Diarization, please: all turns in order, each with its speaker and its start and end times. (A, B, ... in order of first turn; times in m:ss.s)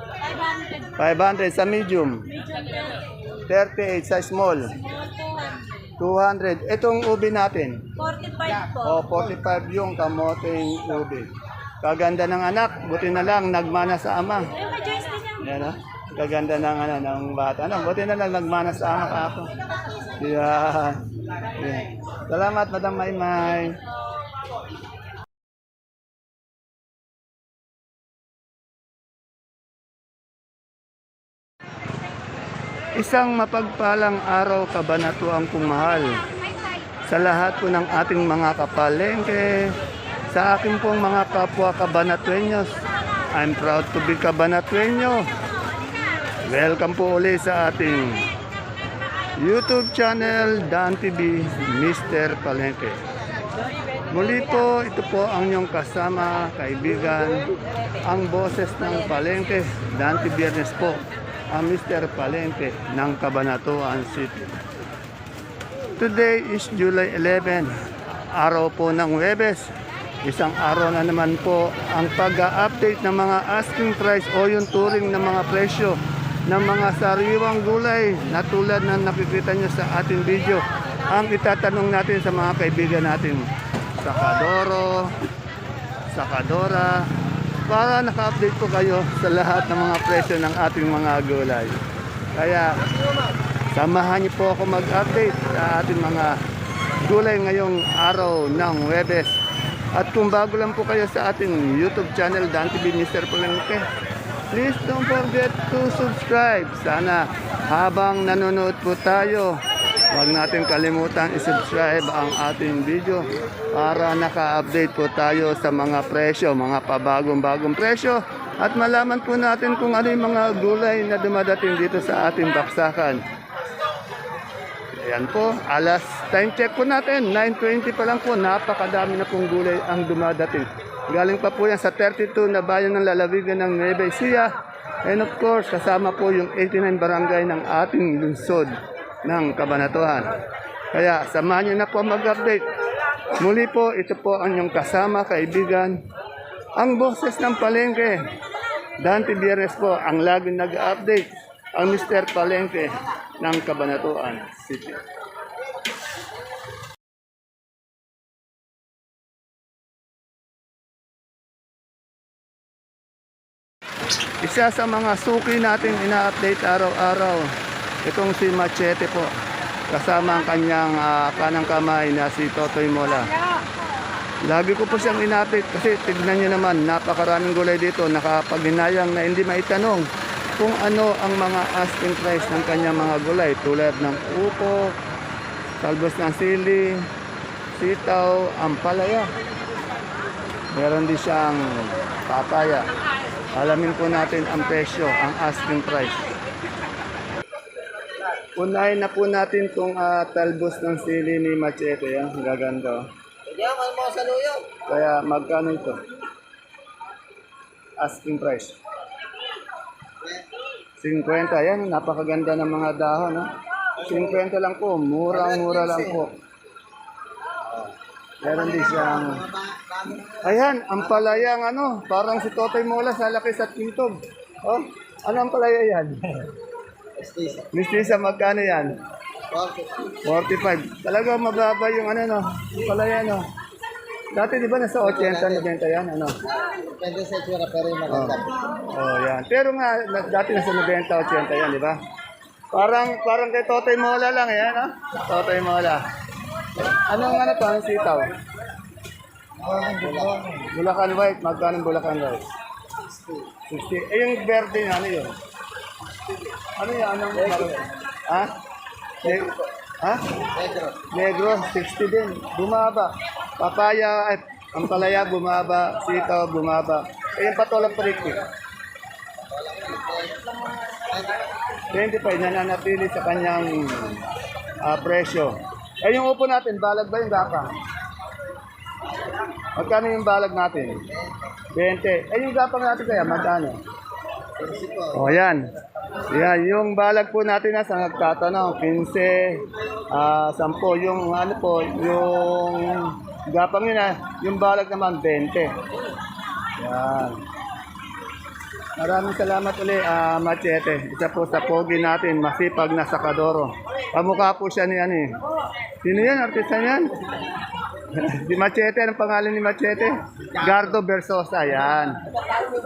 0:00.2-0:00.9 A
0:01.0-0:02.2 B
0:02.3-0:03.0 A
0:03.5-0:04.7 B
0:04.8-0:05.9 A
0:06.0-0:07.8 B
0:08.0-0:09.0 A
0:08.8-0:11.3 B
0:11.8-0:14.5 B
0:14.6-0:15.4 A
0:15.4-0:19.5 B
0:20.2-0:21.0 B
0:21.6-0:23.8 B
0:33.0-0:36.2 B
0:37.1-0:39.7 B
0:40.3-0:42.7 B
0:43.3-0:45.3 B
0:46.5-0:48.3 B
0:49.4-0:53.0 B
0:54.1-1:04.5 B
1:06.0-1:07.7 B
1:08.3-1:09.7 B
1:10.2-1:23.5 B
1:24.0-1:25.1 B
1:26.1-1:27.1 B
1:27.7-1:31.8 B
1:32.4-1:32.8 B
1:33.7-1:36.4 B
1:37.0-1:39.3 B
1:39.9-1:43.8 B
1:44.5-1:49.6 B
1:50.1-2:03.2 B
2:05.0-2:14.5 B
2:15.0-2:18.7 B
2:19.2-2:20.3 B
2:20.9-2:22.6 B
2:23.4-2:26.0 B
2:26.8-2:28.2 B
2:29.0-2:35.0 B
2:44.4-2:47.5 B
2:48.0-2:49.3 B
2:49.9-2:53.3 B
2:54.4-3:00.1 B
3:00.6-3:04.9 B
3:05.8-3:07.1 B
3:07.8-3:09.3 B
3:10.7-3:12.9 B
3:13.5-3:16.2 B
3:18.6-3:23.1 B
3:23.5-3:24.7 C
3:24.9-3:26.0 B
3:28.0-3:28.8 B
3:31.0-3:33.5 B
3:34.0-3:36.4 B
3:35.3-3:36.2 C
3:38.4-3:39.4 B
3:38.4-3:40.6 C
3:40.4-3:46.4 B
3:47.2-3:47.7 C
3:47.7-3:49.0 B
3:49.5-3:50.2 C
3:50.2-3:53.4 B
3:54.3-3:56.3 B
3:55.0-3:55.7 C
3:56.5-3:58.6 C
3:58.1-4:02.0 B
4:02.7-4:06.0 B
4:07.1-4:08.3 B
4:09.6-4:10.6 C
4:10.6-4:12.4 B
4:13.1-4:13.5 C
4:13.7-4:15.3 B
4:16.8-4:18.5 B
4:19.2-4:19.5 B
4:19.2-4:19.6 C
4:20.5-4:21.1 C
4:21.1-4:28.4 B
4:29.5-4:31.4 C
4:31.9-4:34.2 B
4:34.8-4:37.7 B
4:39.8-4:41.0 B
4:41.7-4:43.8 B
4:44.6-4:45.3 C
4:45.1-4:45.6 B
4:46.3-4:49.6 B
4:50.1-4:55.7 B
4:56.8-4:57.4 B
4:59.0-5:05.3 B
5:06.0-5:07.1 B
5:08.1-5:12.2 B